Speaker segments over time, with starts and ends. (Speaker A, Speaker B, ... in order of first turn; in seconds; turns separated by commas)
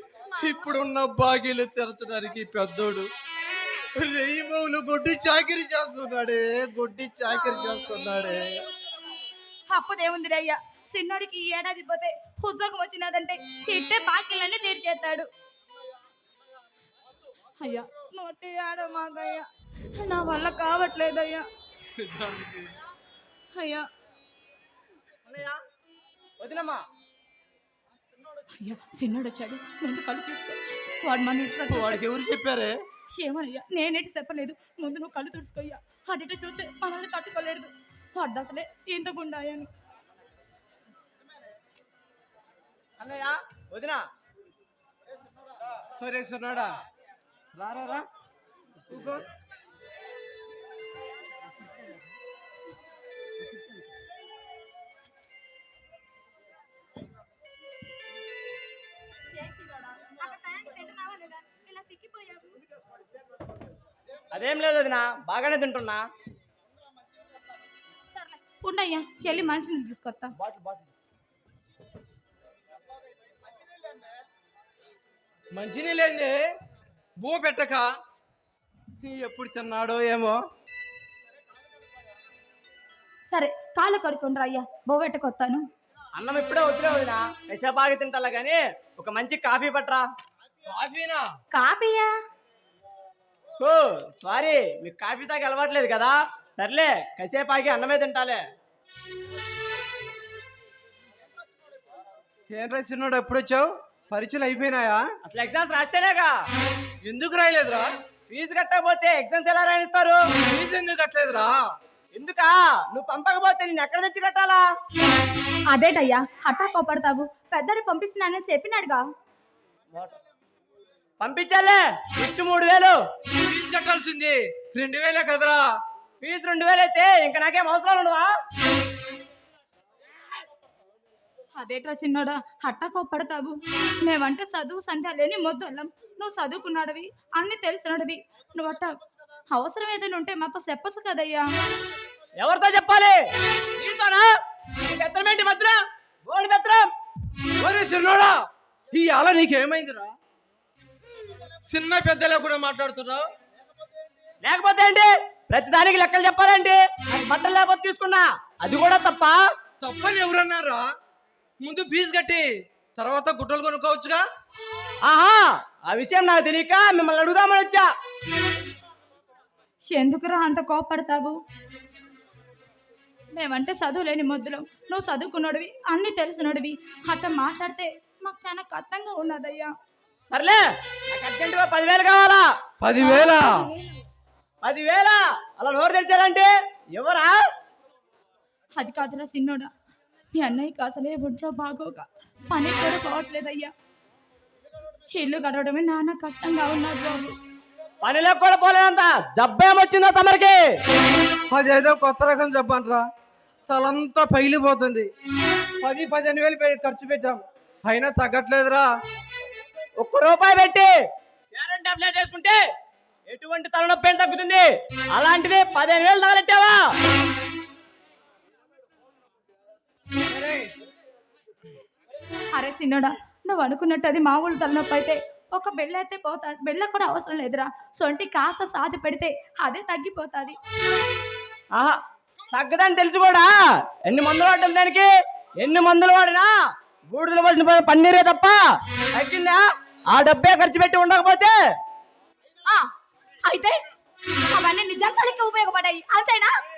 Speaker A: 0.3-0.7, Speaker B: 0.4-3.1, Speaker B: 4.0-8.5, Speaker A: 7.3-7.7, Speaker A: 9.7-15.3, Speaker A: 17.6-21.5, Speaker B: 22.0-22.7, Speaker A: 23.6-23.9, Speaker C: 25.3-25.6, Speaker C: 26.4-26.9, Speaker A: 28.6-32.0, Speaker B: 31.7-32.7, Speaker A: 33.1-39.7, Speaker C: 43.0-44.1, Speaker B: 46.0-46.8, Speaker B: 47.5-48.1, Speaker B: 48.9-49.3, Speaker A: 60.0-62.6, Speaker C: 64.3-66.0, Speaker A: 68.2-70.3, Speaker C: 70.4-70.7, Speaker B: 75.5-76.4, Speaker B: 77.2-77.9, Speaker B: 79.0-80.4, Speaker A: 83.3-85.6, Speaker C: 86.2-90.0, Speaker B: 90.7-91.2, Speaker A: 91.5-92.2, Speaker C: 93.6-98.4, Speaker B: 102.5-105.0, Speaker C: 105.2-106.3, Speaker B: 107.0-107.9, Speaker C: 108.3-110.2, Speaker B: 110.5-111.6, Speaker C: 112.1-114.6, Speaker A: 115.7-119.0, Speaker C: 121.2-123.0, Speaker B: 123.4-125.6, Speaker C: 126.2-128.3, Speaker A: 131.6-139.0, Speaker A: 139.5-141.5, Speaker C: 142.4-143.2, Speaker C: 143.8-144.3, Speaker C: 144.8-146.9, Speaker B: 147.6-148.3, Speaker B: 148.9-150.1, Speaker B: 151.7-153.2, Speaker C: 154.4-159.4, Speaker B: 159.8-160.8, Speaker B: 161.6-164.2, Speaker C: 165.1-167.9, Speaker A: 169.9-171.4, Speaker A: 173.4-179.7, Speaker C: 180.3-182.5, Speaker B: 182.8-183.7, Speaker A: 183.0-183.9, Speaker C: 184.6-187.4, Speaker A: 188.8-189.7, Speaker A: 190.3-193.7, Speaker A: 195.1-197.3, Speaker C: 198.0-200.6, Speaker B: 201.5-203.1, Speaker B: 203.7-205.1, Speaker B: 205.8-208.9, Speaker C: 210.0-210.9, Speaker C: 211.5-212.6, Speaker C: 213.3-216.8, Speaker B: 220.3-220.7, Speaker A: 222.6-230.6, Speaker C: 231.7-232.0, Speaker C: 232.5-236.5, Speaker C: 237.1-238.6, Speaker C: 239.1-241.6, Speaker A: 243.4-243.8, Speaker A: 244.5-246.5